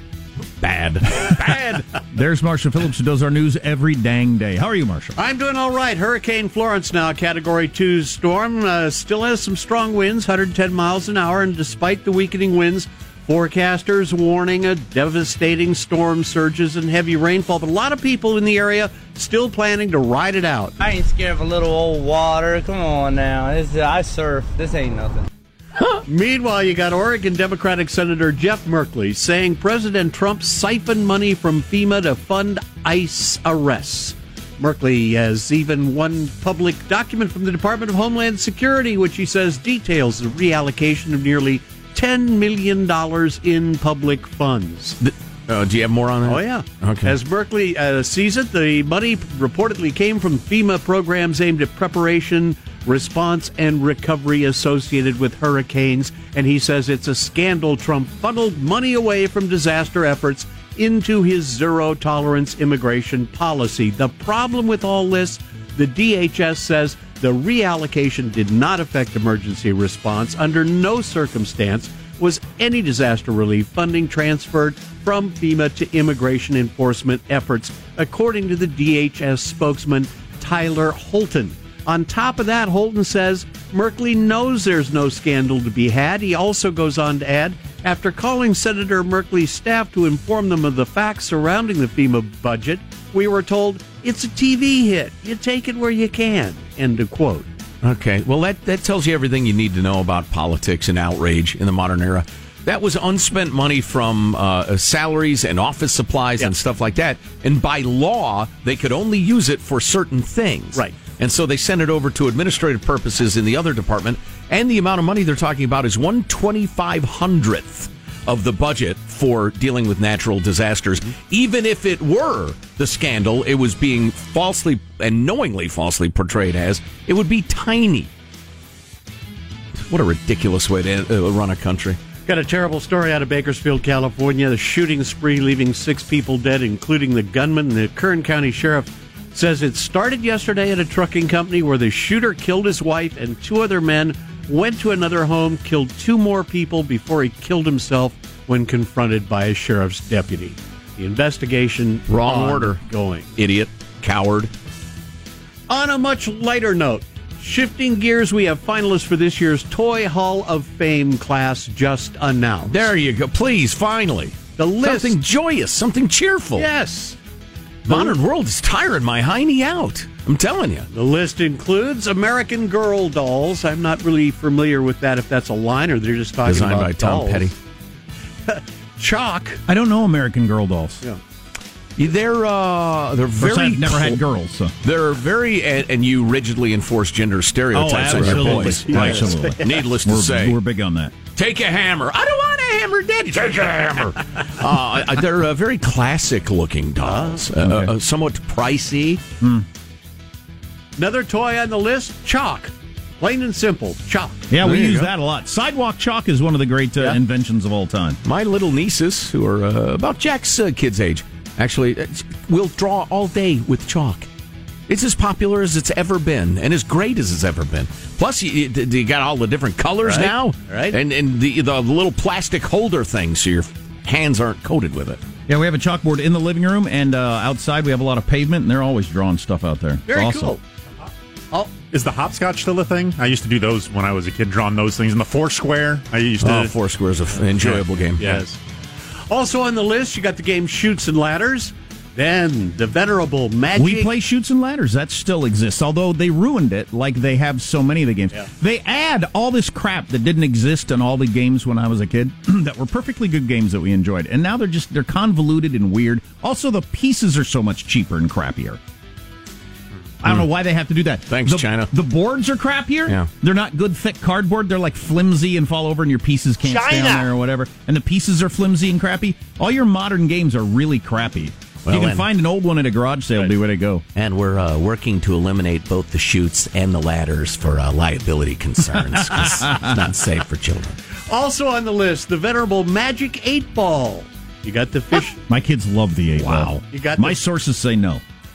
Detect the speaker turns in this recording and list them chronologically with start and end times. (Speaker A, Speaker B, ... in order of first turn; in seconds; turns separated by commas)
Speaker A: 0.6-1.9, Speaker B: 2.1-5.2, Speaker C: 5.2-20.8, Speaker D: 20.8-25.3, Speaker C: 26.1-45.0, Speaker A: 45.0-47.2, Speaker C: 46.2-97.5, Speaker A: 97.8-128.1, Speaker A: 129.8-132.0, Speaker C: 132.2-153.3, Speaker A: 152.1-152.8, Speaker A: 153.3-154.5, Speaker C: 155.7-162.9, Speaker A: 162.7-166.7, Speaker C: 164.6-165.2, Speaker C: 166.6-167.2, Speaker C: 167.9-168.2, Speaker A: 167.9-170.9, Speaker C: 170.9-177.5, Speaker A: 176.4-177.5, Speaker C: 178.5-179.6, Speaker B: 179.7-181.0, Speaker A: 182.0-184.2, Speaker B: 183.4-184.7, Speaker A: 184.8-190.6, Speaker B: 187.7-191.1, Speaker C: 188.1-189.6, Speaker A: 191.3-199.2, Speaker C: 197.0-197.5, Speaker B: 197.6-197.9, Speaker B: 199.4-199.7, Speaker C: 201.0-204.5, Speaker B: 204.5-208.2, Speaker A: 204.6-205.1, Speaker A: 208.2-214.3, Speaker A: 214.9-225.2, Speaker C: 220.0-221.0, Speaker B: 225.5-230.6, Speaker C: 230.1-230.6, Speaker E: 231.9-236.7, Speaker A: 236.4-238.4, Speaker E: 237.6-238.4, Speaker C: 238.2-238.6, Speaker C: 239.3-244.1, Speaker B: 243.7-258.8, Speaker B: 260.2-274.0, Speaker A: 261.3-261.9, Speaker C: 266.7-267.2, Speaker A: 271.9-272.3, Speaker A: 274.1-281.0, Speaker B: 279.6-279.9, Speaker C: 281.3-285.4, Speaker B: 285.5-288.2, Speaker A: 286.4-286.8, Speaker C: 286.9-287.4